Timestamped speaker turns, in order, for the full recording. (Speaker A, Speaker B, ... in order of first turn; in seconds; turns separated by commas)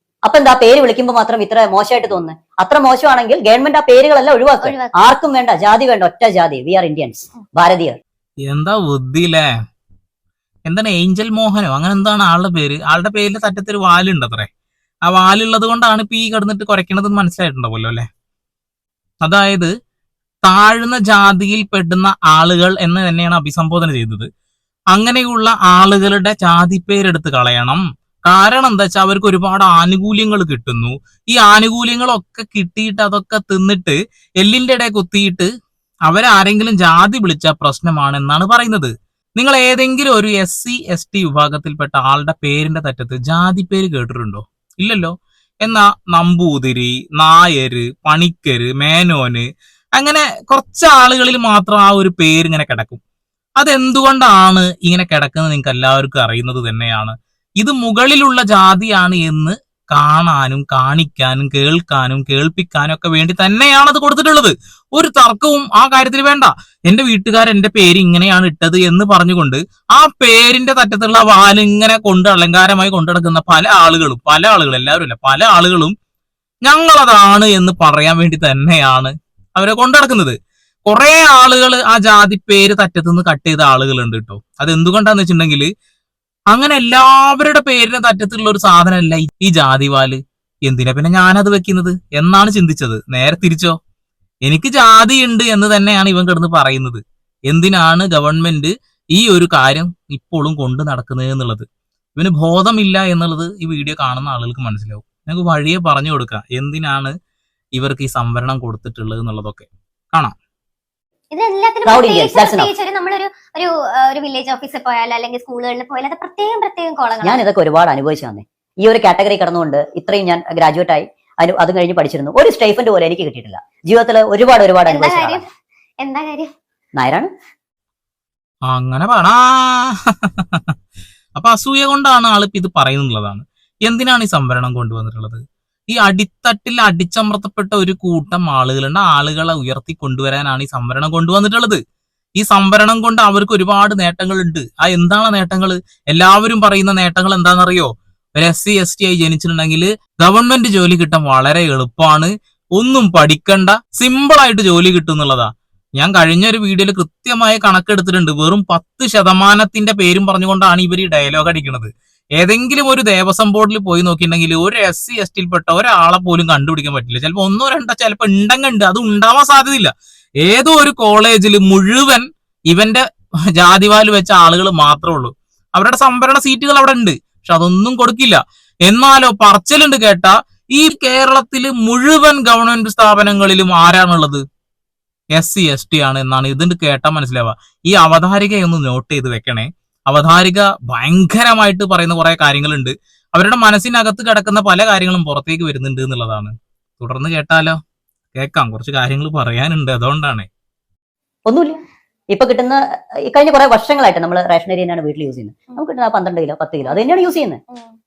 Speaker A: 0.3-8.0, Speaker B: 4.6-5.1, Speaker C: 8.5-9.5, Speaker C: 10.7-14.5, Speaker C: 15.1-18.1, Speaker C: 19.2-19.7, Speaker C: 20.4-24.3, Speaker C: 24.9-35.5, Speaker C: 36.1-49.5, Speaker C: 50.0-53.0, Speaker C: 53.6-75.9, Speaker C: 76.7-80.4, Speaker C: 80.9-85.7, Speaker C: 86.5-93.8, Speaker C: 94.5-101.7, Speaker C: 102.2-107.1, Speaker C: 107.8-110.3, Speaker B: 111.3-117.4, Speaker A: 111.9-112.7, Speaker A: 117.2-125.4, Speaker B: 124.9-125.5, Speaker B: 126.0-126.5, Speaker A: 127.0-127.3, Speaker C: 128.7-130.7, Speaker C: 131.3-141.8, Speaker C: 142.4-169.9, Speaker C: 170.4-173.0, Speaker C: 173.6-184.4, Speaker C: 185.4-197.8, Speaker C: 198.3-200.5, Speaker A: 201.5-201.8, Speaker A: 202.3-207.6